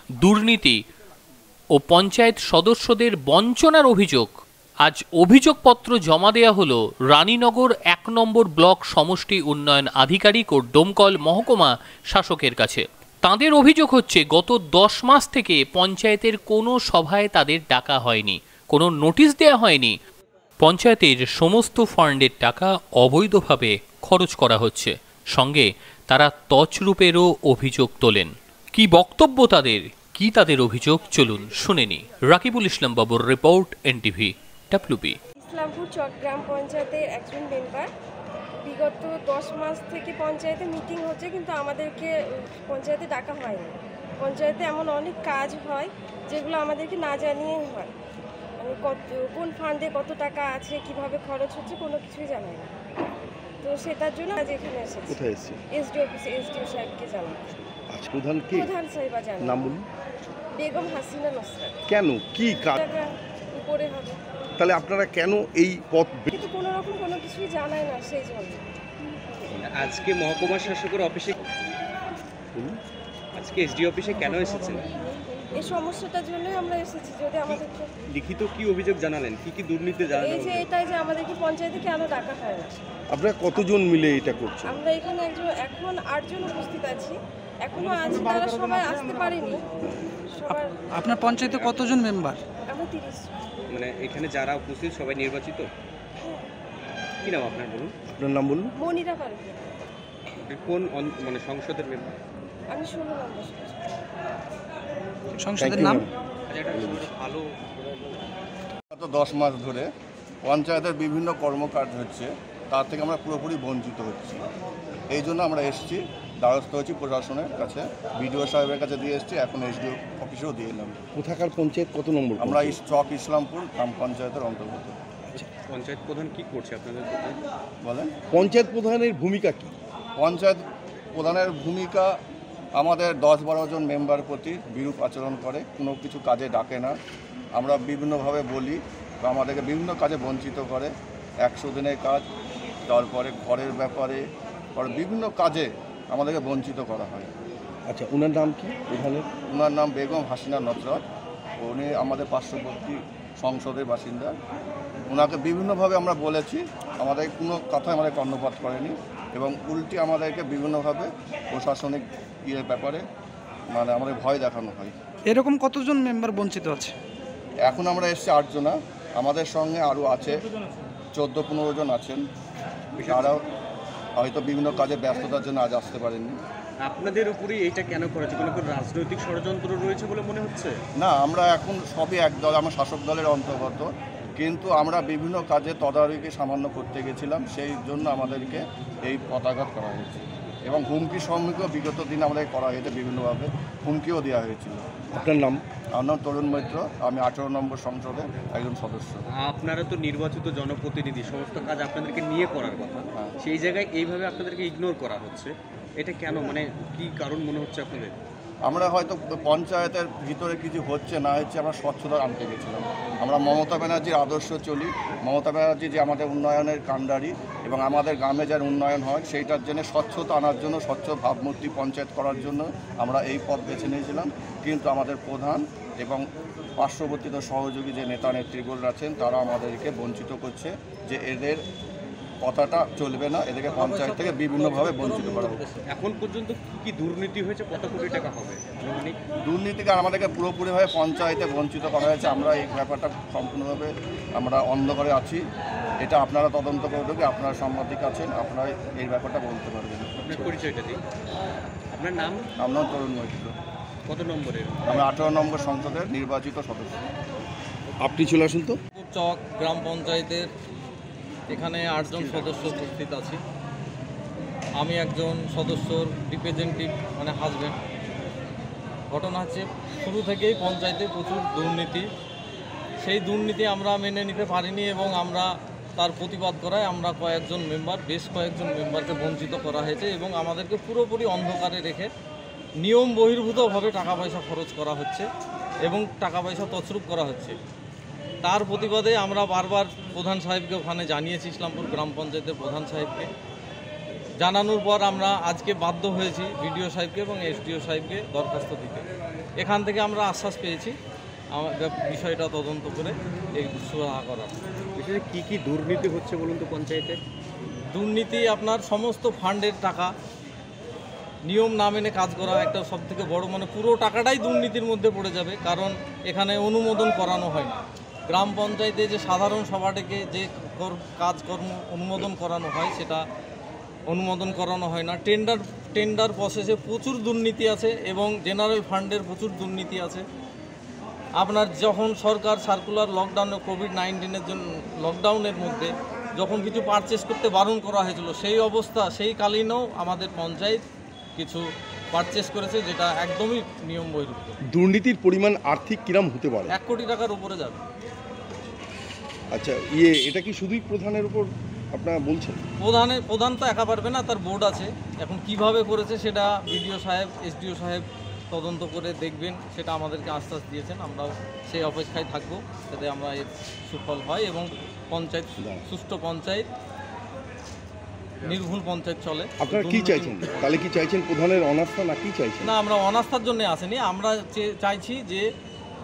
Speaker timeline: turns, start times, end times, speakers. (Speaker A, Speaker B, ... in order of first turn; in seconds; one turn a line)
Speaker A: 0.2-0.8
Speaker A: 1.8-4.3
Speaker A: 4.8-20.0
Speaker A: 20.6-35.2
Speaker B: 35.4-37.9
Speaker B: 38.6-47.9
Speaker B: 48.6-52.7
Speaker B: 53.6-55.2
Speaker C: 55.1-55.6
Speaker B: 55.7-57.6
Speaker C: 57.9-58.7
Speaker B: 58.5-59.7
Speaker C: 59.4-59.8
Speaker B: 60.6-61.8
Speaker C: 61.9-62.8
Speaker B: 62.8-64.2
Speaker C: 64.6-66.3
Speaker B: 66.3-68.6
Speaker D: 69.6-71.5
Speaker D: 73.4-74.8
Speaker B: 75.6-77.9
Speaker D: 77.5-80.7
Speaker B: 80.1-82.8
Speaker C: 83.1-84.8
Speaker B: 84.7-89.6
Speaker B: 90.3-90.8
Speaker E: 91.0-92.4
Speaker B: 92.7-93.3
Speaker D: 93.7-95.7
Speaker D: 97.2-98.0
Speaker C: 98.1-98.7
Speaker B: 98.8-99.7
Speaker D: 100.4-102.1
Speaker B: 102.7-103.8
Speaker E: 105.4-106.0
Speaker C: 105.6-106.1
Speaker D: 106.5-107.6
Speaker C: 106.7-107.1
Speaker F: 108.9-109.9
Speaker F: 110.5-114.4
Speaker F: 115.1-121.0
Speaker C: 121.2-122.8
Speaker F: 122.4-125.0
Speaker D: 125.4-127.4
Speaker F: 127.8-128.2
Speaker C: 128.3-129.7
Speaker F: 130.2-132.1
Speaker F: 132.8-136.9
Speaker F: 137.6-140.9
Speaker F: 141.4-142.2
Speaker F: 142.9-144.2
Speaker F: 144.8-147.3
Speaker C: 147.9-149.3
Speaker F: 149.5-151.1
Speaker F: 151.6-154.3
Speaker F: 155.1-163.0
Speaker F: 163.7-164.9
Speaker E: 165.3-166.9
Speaker F: 167.6-170.4
Speaker F: 171.1-172.2
Speaker D: 173.0-173.4
Speaker F: 173.0-173.4
Speaker F: 174.2-176.4
Speaker D: 176.8-180.8
Speaker F: 181.0-194.8
Speaker C: 195.1-195.6
Speaker F: 195.9-199.2
Speaker D: 199.4-208.2
Speaker F: 208.7-226.2
Speaker F: 226.8-231.6
Speaker F: 232.4-235.6
Speaker G: 233.7-235.8
Speaker D: 235.9-239.2
Speaker F: 239.4-245.4
Speaker F: 246.0-250.6
Speaker D: 250.2-251.0
Speaker D: 251.9-252.5
Speaker F: 252.6-253.5
Speaker D: 254.1-255.1
Speaker F: 254.9-257.0
Speaker C: 258.0-258.8
Speaker G: 258.9-260.5
Speaker G: 261.5-263.4
Speaker D: 262.1-262.8
Speaker G: 264.8-267.8
Speaker G: 269.1-272.1
Speaker G: 273.0-282.1
Speaker G: 282.8-285.3
Speaker G: 285.9-287.6
Speaker G: 288.4-293.3
Speaker G: 294.4-299.1
Speaker G: 299.6-301.0
Speaker G: 301.5-304.6
Speaker D: 304.9-307.2
Speaker G: 307.9-310.1
Speaker G: 311.5-323.2
Speaker G: 324.1-330.2
Speaker G: 331.4-340.8
Speaker G: 341.4-344.6
Speaker C: 344.7-346.7
Speaker G: 346.7-347.8
Speaker C: 349.5-352.6
Speaker G: 352.8-366.7
Speaker G: 368.4-370.9
Speaker C: 369.6-372.7
Speaker G: 372.6-375.5